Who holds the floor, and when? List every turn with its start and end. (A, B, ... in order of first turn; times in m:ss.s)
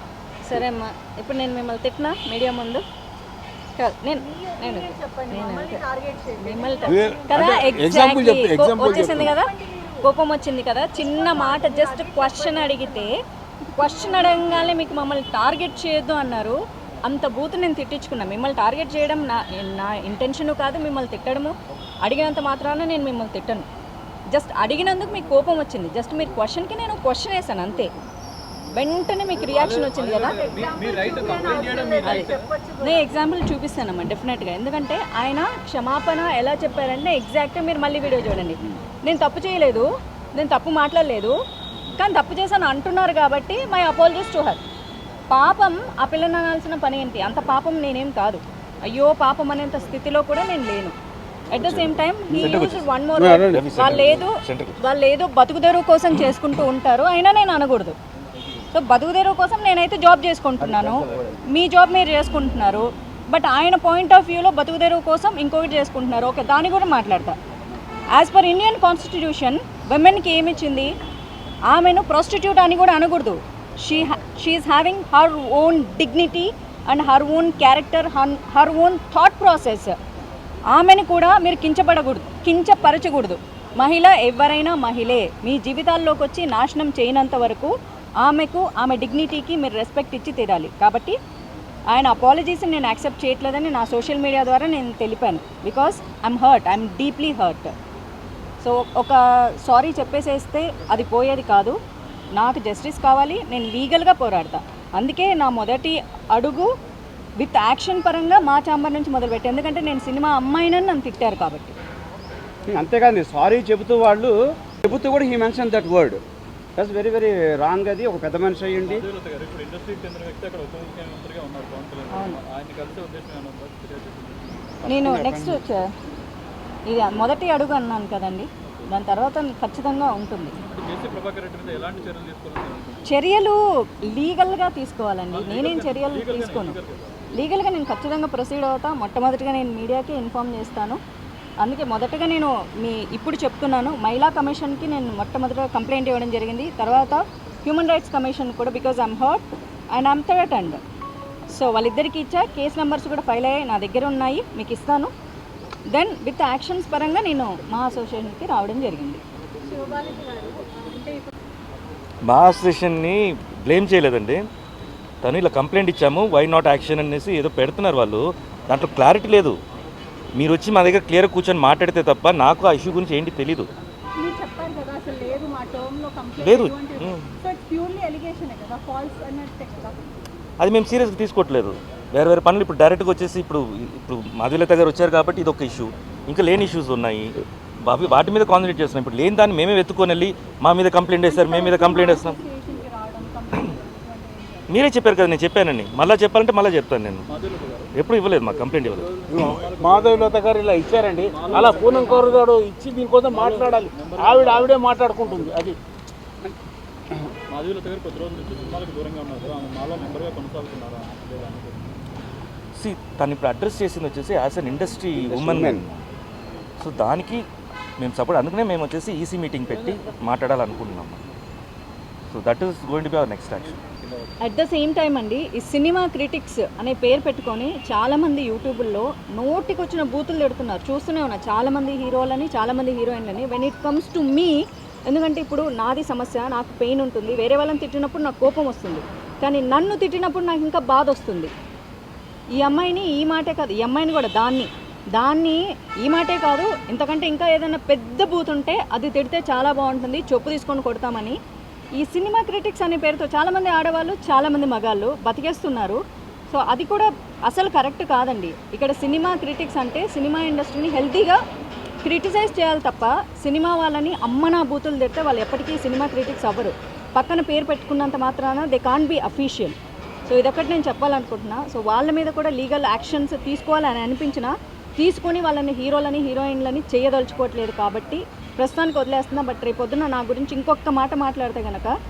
0:00.5-0:02.8 A
0:03.8-0:05.8 A
0:04.1-0:07.4 B
0:06.4-0:13.1 A
0:06.9-0:09.4 C
0:08.8-0:10.1 B
0:10.9-0:13.1 B
0:13.8-0:23.7 A
0:13.8-0:14.5 B
0:24.3-0:27.9 A
0:28.7-0:30.6 A
0:29.4-0:32.5 D
0:30.2-0:33.1 B
0:31.9-0:32.3 A
0:32.8-0:41.3 A
0:42.0-0:44.6 A
0:45.3-0:50.9 A
0:51.5-0:58.0 A
0:51.6-0:52.9 E
0:53.2-0:53.4 C
0:53.4-0:54.8 E
0:58.7-1:07.4 A
1:00.6-1:01.4 F
1:08.1-1:10.9 A
1:11.7-1:20.0 A
1:20.7-1:31.2 A
1:31.9-1:37.7 A
1:38.6-1:41.8 A
1:42.4-1:46.7 A
1:47.4-1:51.8 A
1:52.7-1:56.2 F
1:56.8-1:59.1 F
1:58.8-2:05.1 D
2:02.1-2:02.4 A
2:04.9-2:05.9 A
2:04.9-2:05.6 F
2:06.9-2:10.6 A
2:10.6-2:13.1 D
2:13.1-2:16.8 A
2:15.3-2:17.2 D
2:17.3-2:21.0 A
2:21.6-2:30.8 A
2:31.5-2:35.1 A
2:35.9-2:39.2 A
2:39.6-2:41.3 B
2:42.2-2:44.4 E
2:45.2-2:49.6 E
2:50.4-2:53.7 E
2:54.2-3:00.1 B
2:56.4-2:57.4 E
3:00.6-3:12.4 E
3:11.2-3:14.8 B
3:14.7-3:17.2 E
3:17.3-3:20.4 D
3:18.0-3:19.6 E
3:19.3-3:25.8 C
3:21.3-3:22.5 D
3:23.3-3:25.5 D
3:27.5-3:32.0 D
3:32.8-3:35.9 E
3:35.2-3:36.0 F
3:36.8-3:37.4 E
3:38.0-3:41.2 E
3:42.3-3:43.8 E
3:43.7-3:44.3 D
3:44.4-3:54.6 A
3:55.1-4:01.5 A
4:02.6-4:11.4 A
4:12.0-4:16.0 A
4:16.5-4:21.4 A
4:22.0-4:29.8 A
4:30.3-4:41.9 A